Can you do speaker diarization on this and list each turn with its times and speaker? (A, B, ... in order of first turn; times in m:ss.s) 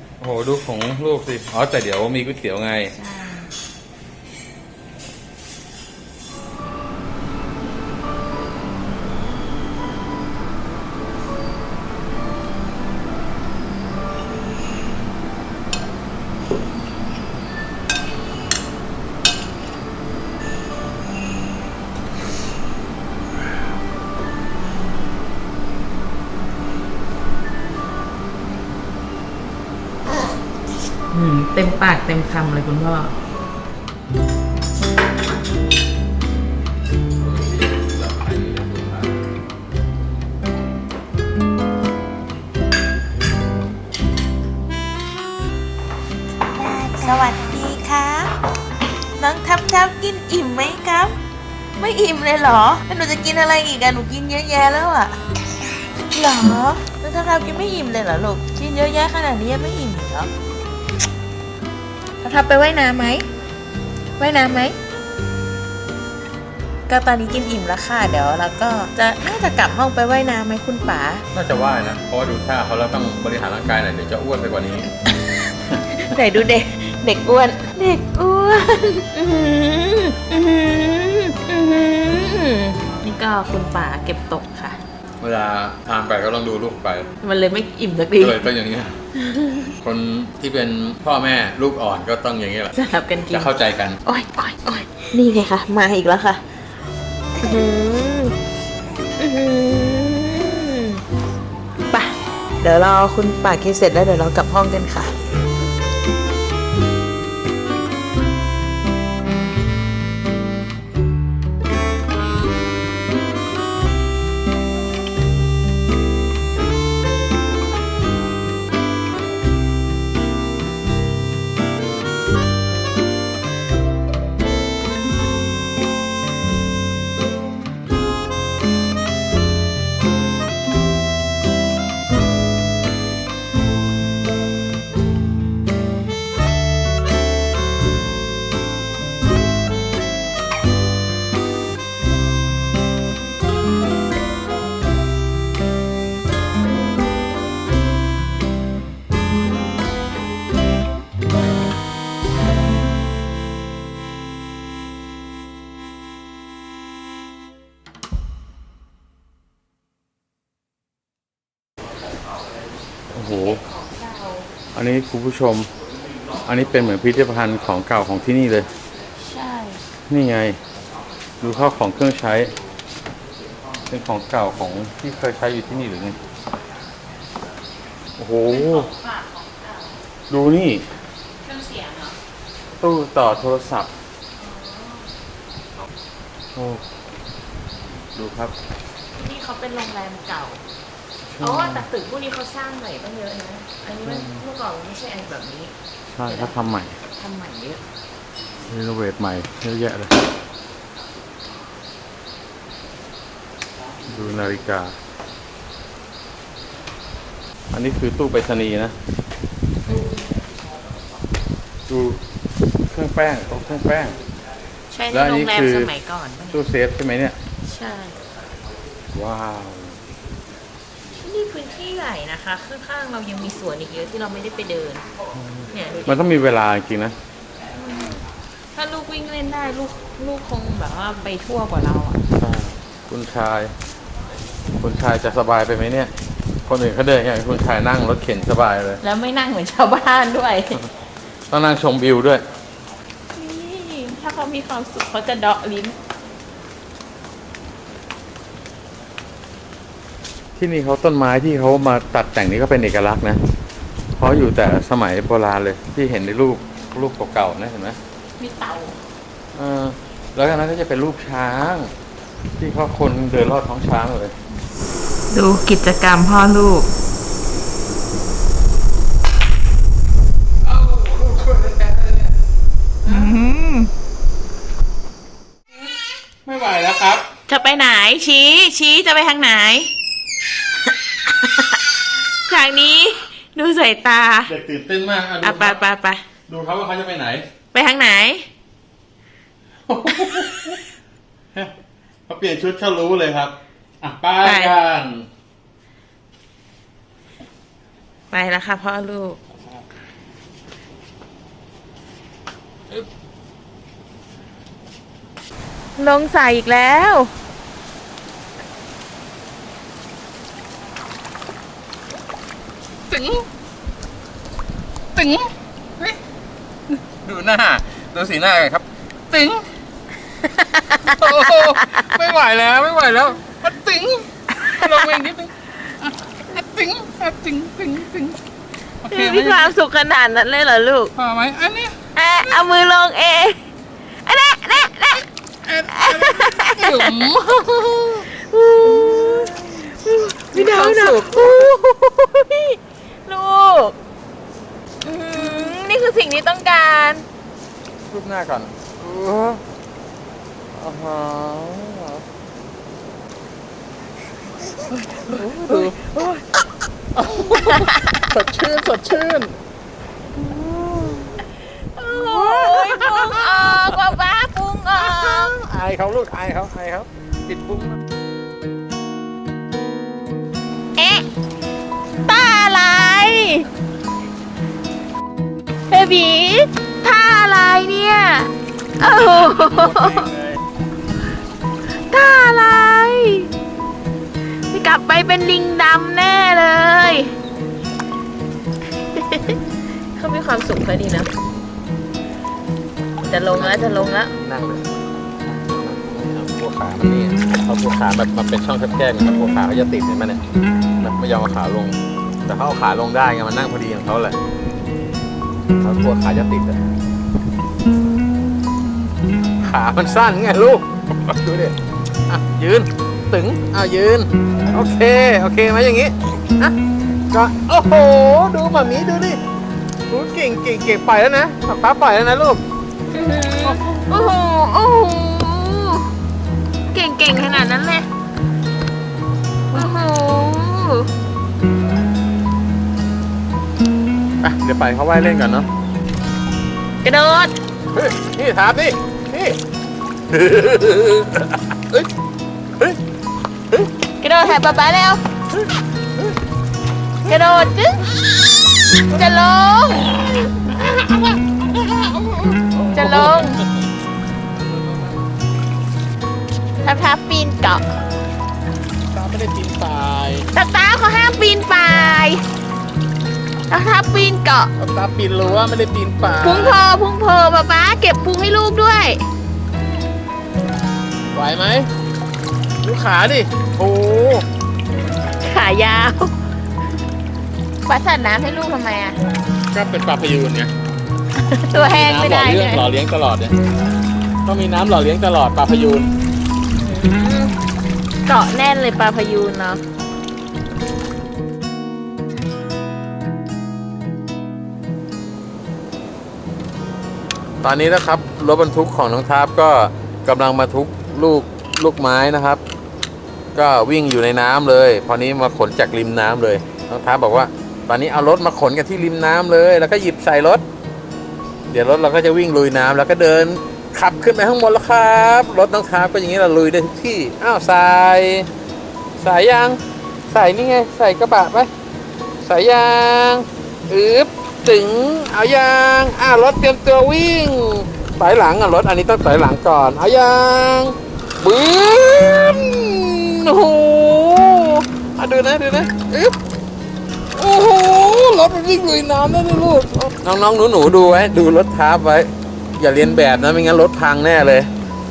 0:00.2-0:02.9 A
0:02.9-0:03.5 B
0:31.1-0:33.1 B
0:37.2-0:39.1 A
0:46.6-0:48.3 B
0:49.2-0:51.2 B
0:51.8-0:55.2 B
0:56.1-1:00.3 B
1:02.2-1:03.3 B
1:04.2-1:04.8 B
1:06.9-1:11.2 B
1:11.3-1:14.9 A
1:15.2-1:24.8 B
1:25.2-1:27.1 A
1:27.2-1:28.5 B
1:28.2-1:29.0 A
1:29.1-1:29.8 B
1:29.8-1:32.8 A
1:32.7-1:33.5 B
1:33.3-1:34.0 A
1:34.0-1:36.4 B
1:37.4-1:38.4 B
1:39.2-1:41.0 B
1:41.9-1:45.1 B
2:43.1-2:43.6 A
2:43.3-2:44.5 B
2:44.8-2:45.7 A
2:46.5-2:48.7 A
2:49.2-2:49.8 B
2:50.1-2:50.6 A
2:51.4-2:52.5 A
2:53.9-2:56.2 A
2:58.2-2:58.9 A
2:58.4-3:00.0 B
3:00.3-3:00.9 A
3:01.4-3:02.2 B
3:02.8-3:03.9 A
3:04.4-3:05.1 B
3:06.6-3:06.8 A
3:08.1-3:08.5 A
3:09.2-3:10.6 B
3:11.3-3:11.8 A
3:11.4-3:15.7 B
3:14.0-3:14.4 A
3:16.1-3:17.0 A
3:16.3-3:17.8 B
3:18.7-3:20.1 A
3:24.1-3:25.0 A
3:27.7-3:28.9 A
3:29.9-3:30.2 B
3:31.9-3:32.2 A
3:32.9-3:34.2 A
3:34.9-3:36.6 B
3:35.1-3:35.9 A
3:36.5-3:37.4 A
3:37.6-3:38.2 B
3:39.1-3:40.0 A
3:41.2-3:45.1 B
3:45.4-3:47.2 A
3:45.7-3:46.3 B
3:47.7-3:48.2 B
3:48.7-3:52.2 B
3:52.4-3:53.7 A
3:54.8-3:56.1 A
3:56.7-3:59.0 A
3:59.0-4:00.8 B
4:01.5-4:02.4 A
4:03.3-4:06.0 B
4:10.6-4:13.4 A
4:14.2-4:18.0 A
4:18.4-4:19.0 B
4:19.6-4:21.9 A
4:22.6-4:24.3 A
4:25.3-4:26.9 B
4:30.6-4:32.3 A
4:33.0-4:33.4 A
4:33.1-4:33.9 B
4:36.4-4:37.2 A
4:37.5-4:39.9 B
4:41.2-4:41.8 B
4:42.4-4:44.5 B
4:44.5-4:45.8 A
4:45.4-4:46.2 B
4:46.5-4:47.4 A
4:47.7-4:48.5 B
4:49.9-4:50.8 A
4:52.3-4:55.3 A
4:54.4-4:54.8 B
4:58.3-4:59.4 B
5:06.0-5:07.3 B
5:13.1-5:13.4 A
5:15.2-5:16.2 A
5:16.9-5:19.7 A
5:20.5-5:22.2 B
5:21.0-5:28.4 A
5:24.6-5:25.1 B
5:29.0-5:29.7 A
5:29.1-5:31.1 B
5:31.2-5:32.0 A
5:32.2-5:33.6 B
5:34.2-5:35.3 B
5:35.7-5:38.3 A
5:35.9-5:37.3 B
5:38.2-5:44.0 B
5:38.8-5:39.8 A
5:40.5-5:41.7 A
5:45.0-5:47.2 B
5:48.1-5:49.6 A
5:50.8-5:52.2 A
5:54.8-5:56.4 A
5:55.3-5:55.9 B
5:57.2-5:59.5 A
5:57.6-5:58.1 B
6:00.4-6:01.4 A
6:01.8-6:05.5 B
6:02.1-6:04.2 A
6:05.0-6:08.0 A
6:11.0-6:11.3 B
6:12.3-6:13.7 B
6:15.9-6:20.3 B
6:19.2-6:20.6 A
6:22.1-6:23.5 B
6:24.7-6:27.3 B
6:29.1-6:29.6 B
6:30.2-6:31.3 B
6:33.2-6:34.3 B
6:33.5-6:34.9 A
6:35.5-6:40.4 A
6:41.0-6:44.4 A
6:45.8-6:46.8 A
6:49.6-6:51.8 A
6:52.3-6:56.8 A
6:57.3-6:59.4 A
7:00.1-7:02.6 A
7:03.1-7:06.1 B
7:03.6-7:04.0 A
7:06.9-7:08.1 B
7:09.7-7:11.1 B
7:14.4-7:15.7 A
7:17.0-7:17.6 B
7:17.9-7:19.6 A
7:20.3-7:22.1 A
7:24.2-7:25.2 B
7:25.5-7:26.4 A
7:27.3-7:28.1 B
7:29.0-7:30.3 B
7:30.3-7:33.7 A
7:32.8-7:33.6 B
7:36.8-7:37.8 B
7:39.1-7:40.5 A
7:40.5-7:42.4 B
7:43.7-7:44.7 B
7:44.8-7:46.8 A
7:46.4-7:49.2 B
7:51.3-7:51.9 A
7:52.8-7:54.4 A
7:55.4-7:56.3 B
7:57.9-7:59.2 B
7:59.7-8:00.7 A
8:01.4-8:02.8 B
8:01.7-8:03.6 A
8:04.5-8:06.1 A
8:06.8-8:07.6 B
8:08.3-8:09.8 B
8:17.6-8:22.6 A
8:23.6-8:30.6 A
8:31.7-8:38.5 A
8:39.2-8:39.8 A
8:40.3-8:41.7 A
8:42.4-8:56.4 A
8:57.4-9:04.7 A